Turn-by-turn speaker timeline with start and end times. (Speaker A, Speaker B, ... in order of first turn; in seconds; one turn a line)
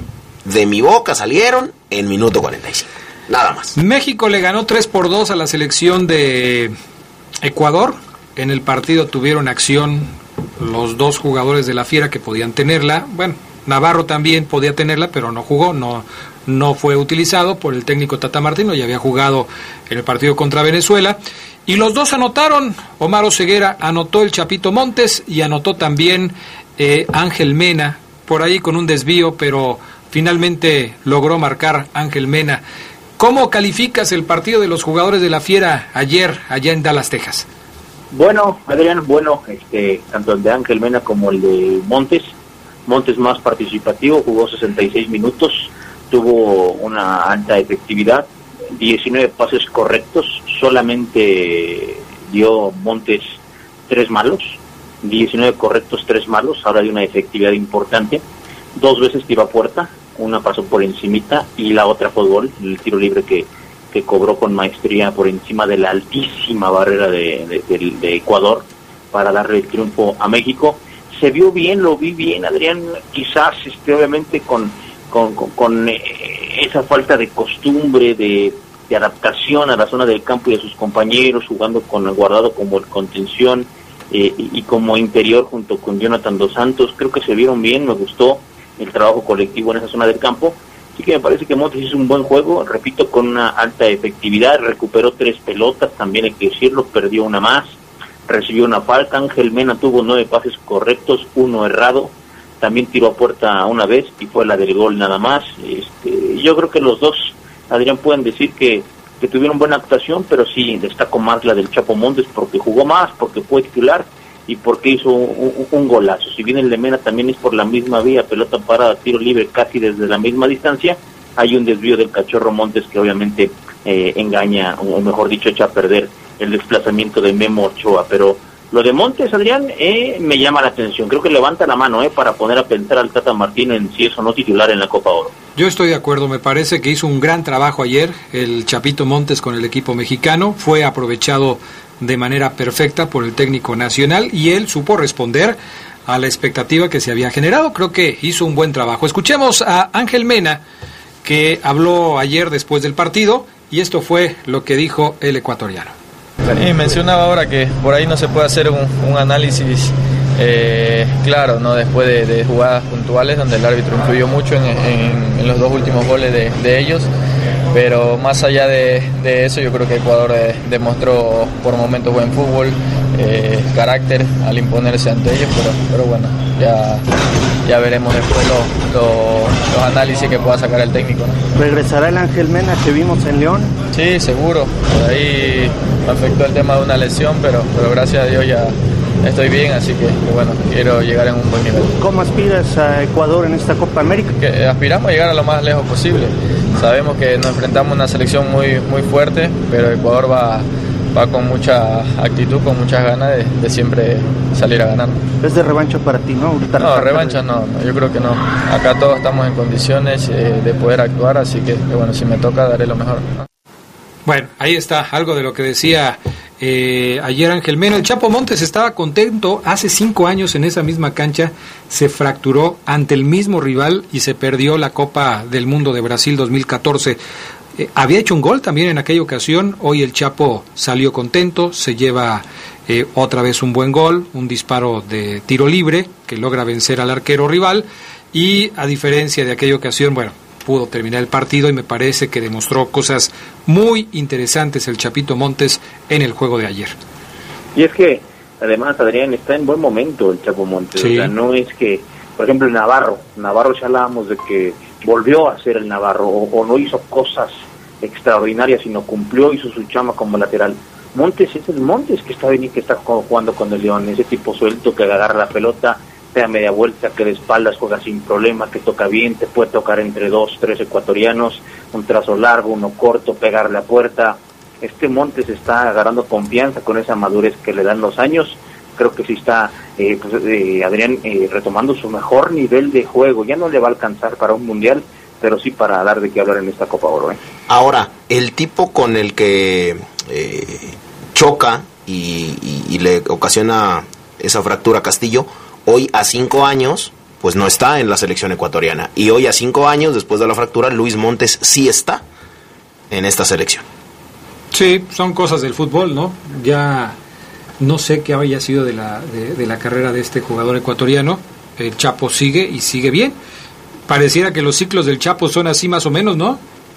Speaker A: 0.5-3.8
Speaker B: 3.8-6.7
Speaker B: 7.4-32.6
Speaker B: 33.2-37.5
Speaker C: 38.1-42.3
Speaker C: 42.9-58.2
Speaker C: 58.8-97.8
Speaker C: 98.3-135.3
Speaker B: 135.6-150.6
Speaker B: 151.2-155.9
Speaker D: 156.5-167.1
Speaker D: 167.7-177.0
Speaker D: 177.7-181.4
Speaker E: 181.6-183.8
Speaker D: 183.9-191.9
Speaker E: 192.0-194.3
Speaker D: 194.4-205.2
Speaker E: 205.4-207.4
Speaker D: 206.8-213.4
Speaker B: 214.3-227.2
Speaker B: 227.8-247.0
Speaker C: 247.8-287.4
Speaker B: 251.0-251.3
Speaker A: 287.7-302.2
Speaker A: 303.1-303.8
Speaker B: 304.7-307.2
Speaker B: 307.8-313.4
Speaker B: 314.1-316.6